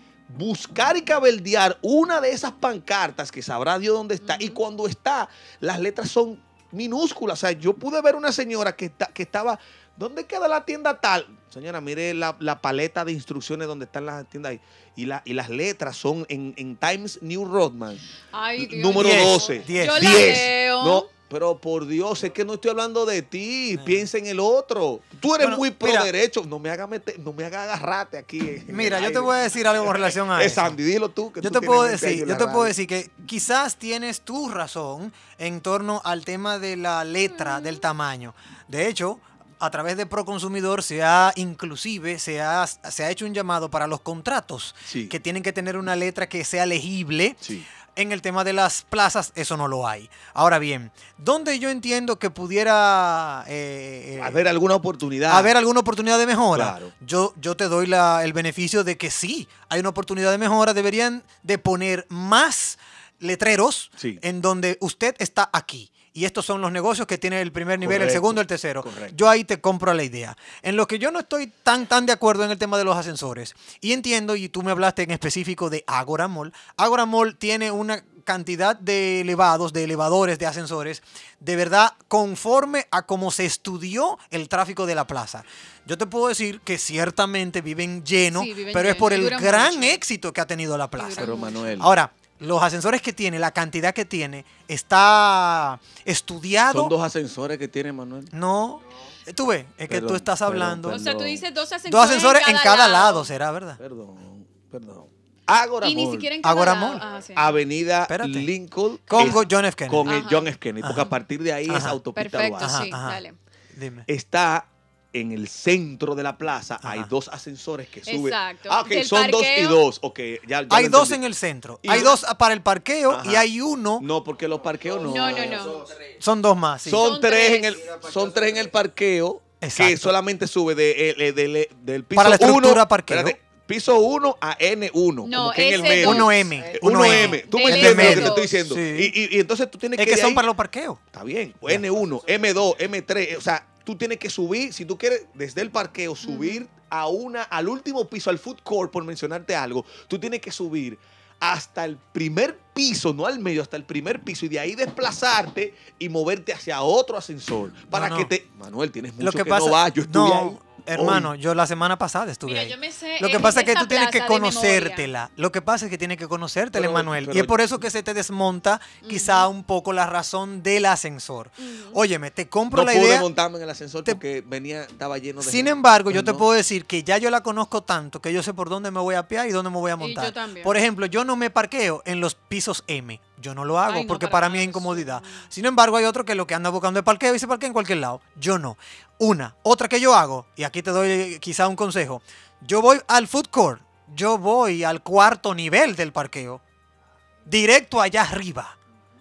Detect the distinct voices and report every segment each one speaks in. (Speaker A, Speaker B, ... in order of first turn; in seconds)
Speaker A: 0.3-18.0, 18.6-32.8, 44.9-45.2, 54.2-55.5, 56.5-56.9, 67.8-69.2, 91.2-91.9, 96.7-98.3, 99.9-101.4, 103.8-106.3, 107.3-112.8, 114.1-121.2, 121.8-122.2, 123.1-123.5, 124.0-125.8, 126.8-140.4, 141.1-161.3, 166.7-167.6, 172.7-176.5
Speaker B: 4.2-4.6, 18.2-21.1, 37.4-37.9, 88.3-90.0, 91.0-91.8, 100.9-103.3, 105.8-107.7, 110.0-110.5, 112.1-113.4, 118.0-119.8, 121.9-122.2, 125.0-125.9, 127.0-127.9, 135.2-138.7, 146.2-146.7, 162.5-165.1, 169.0-169.5, 171.6-172.0, 180.0-180.8, 183.9-185.5
Speaker C: 19.0-20.2, 23.7-24.1, 25.4-26.1, 28.7-30.8, 31.4-47.4, 48.0-54.5, 55.3-96.9, 98.3-101.0, 101.9-103.8, 106.4-107.0, 108.1-108.5, 109.1-110.3, 110.8-111.2, 111.7-112.0, 112.6-113.2, 113.8-114.1, 116.8-117.1, 120.7-124.1, 126.2-127.0, 129.6-130.1, 132.2-133.4, 135.9-139.2, 140.0-141.0, 157.9-158.3, 159.2-173.3, 175.4-196.6, 197.5-198.8